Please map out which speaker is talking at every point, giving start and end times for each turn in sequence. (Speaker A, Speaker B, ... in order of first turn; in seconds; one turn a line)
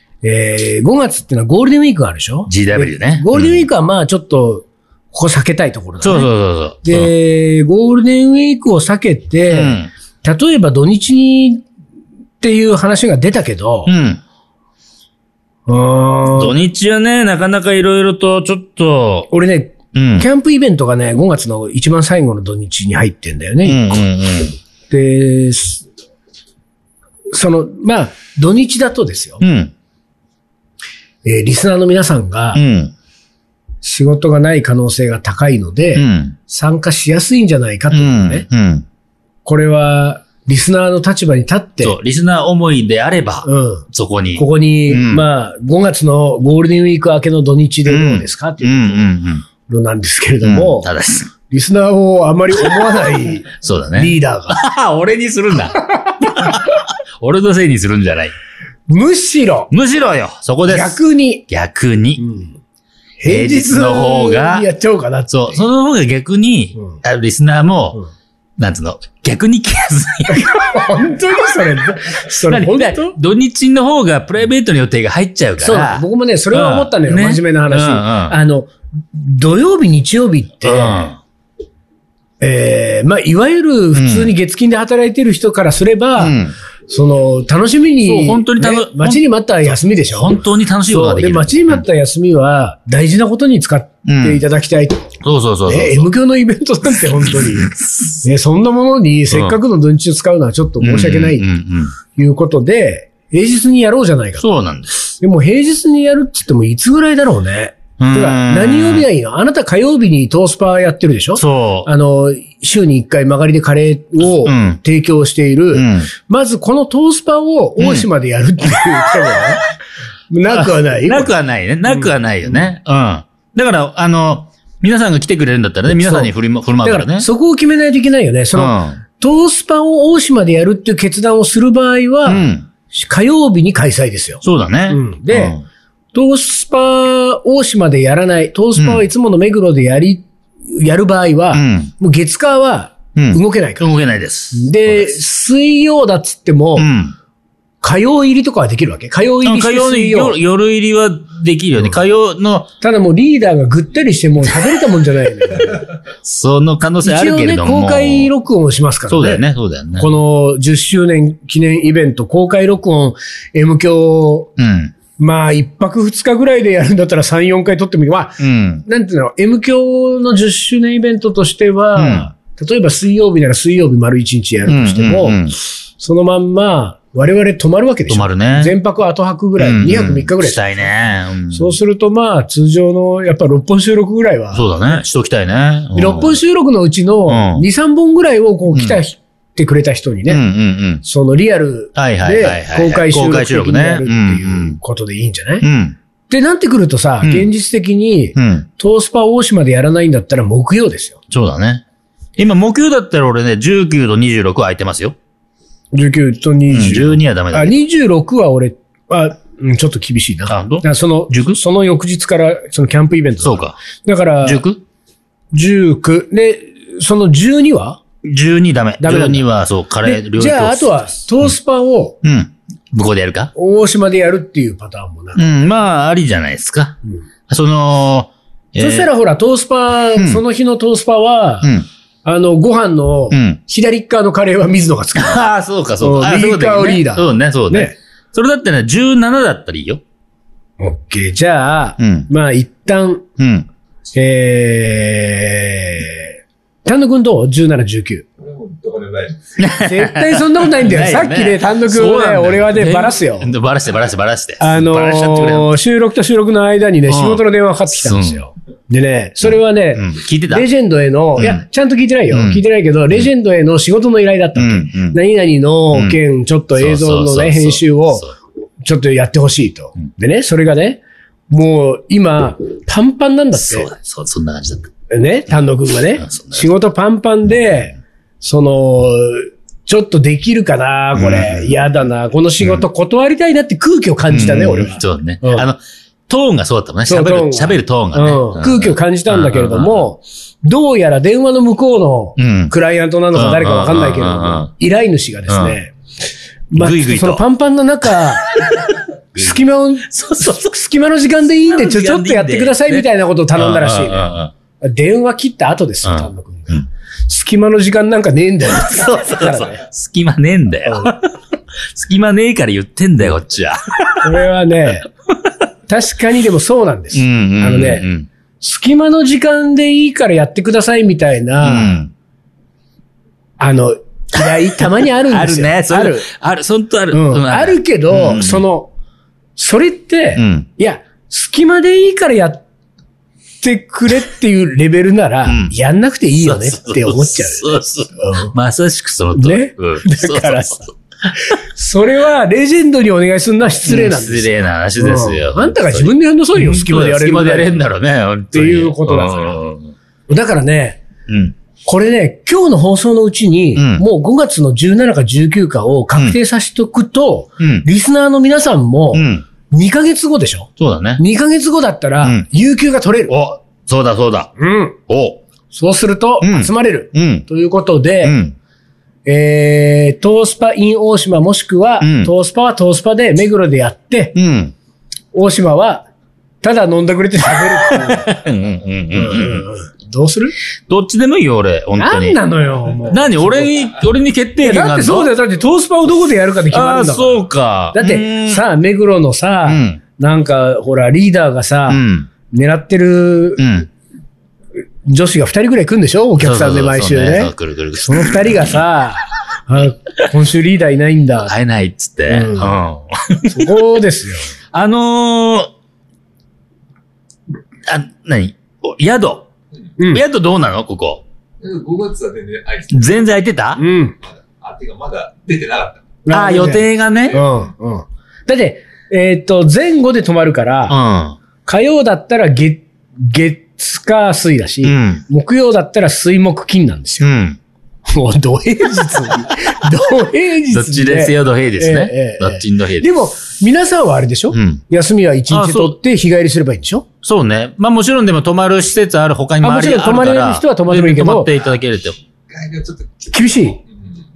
Speaker A: 0.2-6.3
Speaker B: 2.5-3.6
Speaker B: 6.0-7.1
Speaker A: 6.8-11.6
Speaker B: 9.5-9.9
Speaker A: 12.4-13.9
Speaker B: 13.8-14.2
Speaker A: 15.7-16.6
Speaker B: 16.3-19.3
Speaker A: 19.3-24.0
Speaker B: 19.9-20.3
Speaker B: 23.6-24.5
Speaker A: 24.9-25.9
Speaker A: 27.3-29.4
Speaker B: 29.4-29.7
Speaker A: 31.2-32.6
Speaker B: 32.5-32.9
Speaker A: 33.8-38.5
Speaker B: 35.9-36.4
Speaker B: 37.9-38.9
Speaker A: 39.4-42.0
Speaker B: 41.8-45.2
Speaker A: 43.4-43.8
Speaker A: 44.4-49.1
Speaker B: 47.9-49.5
Speaker A: 49.6-50.9
Speaker B: 50.4-51.3
Speaker A: 51.4-54.6
Speaker B: 52.6-52.9
Speaker B: 53.5-58.3
Speaker A: 55.8-56.6
Speaker A: 58.9-59.7
Speaker B: 59.7-61.0
Speaker A: 60.7-61.4
Speaker B: 61.5-62.2
Speaker A: 62.2-62.5
Speaker A: 63.2-65.6
Speaker B: 63.2-64.7
Speaker B: 65.3-68.0
Speaker B: 68.6-70.7
Speaker A: 70.3-73.2
Speaker B: 72.5-78.3
Speaker A: 75.6-81.1
Speaker B: 80.6-81.2
Speaker A: 82.4-86.3
Speaker B: 83.9-84.3
Speaker B: 86.2-86.5
Speaker A: 86.9-101.5
Speaker B: 88.0-91.8
Speaker B: 94.0-94.4
Speaker B: 95.2-96.1
Speaker B: 97.2-98.2
Speaker B: 99.3-99.6
Speaker B: 100.8-101.9
Speaker A: 102.1-104.5
Speaker B: 104.4-105.1
Speaker A: 105.2-119.6
Speaker B: 108.0-109.1
Speaker B: 111.3-111.9
Speaker B: 114.2-114.8
Speaker B: 115.7-116.1
Speaker B: 117.8-118.1
Speaker A: 120.3-121.3
Speaker B: 120.5-127.3
Speaker A: 125.9-126.3
Speaker A: 126.8-135.6
Speaker B: 128.5-129.0
Speaker B: 132.2-132.7
Speaker B: 134.4-135.6
Speaker A: 136.1-143.9
Speaker B: 138.8-139.0
Speaker B: 141.5-141.9
Speaker B: 143.1-145.1
Speaker A: 144.5-146.9
Speaker B: 146.8-147.1
Speaker A: 147.8-150.4
Speaker B: 149.4-152.7
Speaker A: 152.8-155.9
Speaker B: 156.2-158.3
Speaker A: 157.0-159.4
Speaker B: 159.1-160.1
Speaker A: 160.0-164.5
Speaker B: 164.6-164.9
Speaker A: 165.2-180.8
Speaker B: 168.4-168.8
Speaker B: 171.9-172.3
Speaker B: 174.7-175.5
Speaker B: 178.1-178.7
Speaker B: 179.6-181.7
Speaker A: 181.5-184.7
Speaker B: 184.5-186.4
Speaker A: 185.9-190.4
Speaker B: 187.3-187.7
Speaker B: 188.7-189.0
Speaker B: 190.3-191.0
Speaker A: 191.0-195.7
Speaker B: 191.9-194.8
Speaker B: 195.6-196.0
Speaker A: 196.3-201.2
Speaker B: 197.2-197.5
Speaker B: 198.3-198.7
Speaker B: 201.3-201.8
Speaker B: 202.4-205.2
Speaker A: 205.9-214.6
Speaker B: 206.7-207.8
Speaker B: 210.5-211.6
Speaker B: 213.4-213.8
Speaker B: 214.4-214.8
Speaker A: 215.5-218.0
Speaker B: 218.2-221.5
Speaker A: 219.0-219.4
Speaker A: 220.0-222.2
Speaker B: 222.2-223.5
Speaker A: 223.5-225.4
Speaker B: 225.3-229.1
Speaker A: 228.8-231.7
Speaker B: 230.2-230.4
Speaker B: 231.6-231.9
Speaker A: 232.2-235.4
Speaker B: 233.3-233.6
Speaker B: 235.1-240.0
Speaker A: 236.0-237.9
Speaker A: 240.8-243.2
Speaker B: 242.0-242.3
Speaker B: 243.4-243.7
Speaker A: 244.1-248.2
Speaker C: 248.4-249.5
Speaker B: 249.6-255.7
Speaker A: 249.7-253.5
Speaker A: 254.6-268.2
Speaker B: 257.1-258.4
Speaker B: 259.4-260.7
Speaker B: 261.4-261.6
Speaker B: 262.3-262.6
Speaker B: 264.6-265.2
Speaker B: 265.9-266.2
Speaker B: 266.8-268.3
Speaker A: 268.8-273.9
Speaker B: 273.5-274.9
Speaker A: 275.1-285.7
Speaker B: 276.2-276.7
Speaker B: 281.1-281.7
Speaker B: 284.3-290.1
Speaker A: 287.1-295.9
Speaker B: 292.4-292.7
Speaker B: 293.3-294.7
Speaker B: 295.5-295.8
Speaker A: 296.7-298.5
Speaker B: 296.7-297.4
Speaker B: 298.0-300.8
Speaker A: 299.3-309.8
Speaker B: 301.7-304.5
Speaker B: 306.0-306.8
Speaker B: 308.6-311.4
Speaker A: 310.9-311.1
Speaker B: 311.9-314.4
Speaker A: 314.2-315.1
Speaker A: 315.9-318.1
Speaker B: 317.1-318.3
Speaker A: 318.6-322.0
Speaker B: 321.6-322.1
Speaker A: 323.6-326.3
Speaker B: 324.5-328.6
Speaker A: 327.1-328.9
Speaker A: 329.6-332.6
Speaker B: 330.4-330.7
Speaker A: 333.6-338.5
Speaker B: 335.4-335.7
Speaker B: 336.4-340.9
Speaker A: 339.3-340.8
Speaker A: 341.4-347.8
Speaker B: 343.8-349.9
Speaker A: 348.5-349.6
Speaker A: 350.3-351.0
Speaker B: 351.3-351.5
Speaker A: 351.8-363.3
Speaker B: 353.7-354.0
Speaker B: 357.6-357.9
Speaker B: 359.1-359.4
Speaker B: 360.8-361.2
Speaker B: 362.2-362.4
Speaker B: 363.3-364.5
Speaker A: 364.6-365.0
Speaker B: 365.1-365.4
Speaker A: 365.7-368.4
Speaker B: 366.4-367.4
Speaker B: 368.2-368.6
Speaker A: 369.2-374.3
Speaker B: 372.0-372.3
Speaker B: 374.3-374.7
Speaker A: 375.3-376.1
Speaker A: 376.6-378.3
Speaker B: 377.8-379.6
Speaker A: 379.1-380.5
Speaker B: 380.9-382.4
Speaker A: 382.0-383.7
Speaker B: 383.1-385.3
Speaker A: 384.6-393.7
Speaker B: 386.7-388.6
Speaker B: 389.6-390.0
Speaker B: 391.9-392.3
Speaker B: 393.6-393.9
Speaker A: 395.1-401.5
Speaker B: 396.4-398.8
Speaker B: 401.4-403.8
Speaker A: 402.3-402.8
Speaker A: 403.5-404.5
Speaker B: 404.7-405.7
Speaker B: 407.9-409.5
Speaker A: 410.0-410.2
Speaker B: 410.1-411.2
Speaker C: 411.6-413.3
Speaker B: 412.9-413.8
Speaker A: 413.8-414.1
Speaker C: 414.2-416.1
Speaker A: 416.2-421.0
Speaker B: 416.3-417.4
Speaker B: 420.9-421.4
Speaker A: 421.6-427.3
Speaker B: 424.8-425.2
Speaker B: 427.2-427.6
Speaker A: 428.1-437.1
Speaker B: 430.7-433.1
Speaker B: 434.5-434.8
Speaker B: 435.5-436.0
Speaker B: 437.2-442.2
Speaker A: 439.6-441.5
Speaker C: 442.5-444.1
Speaker A: 443.3-443.8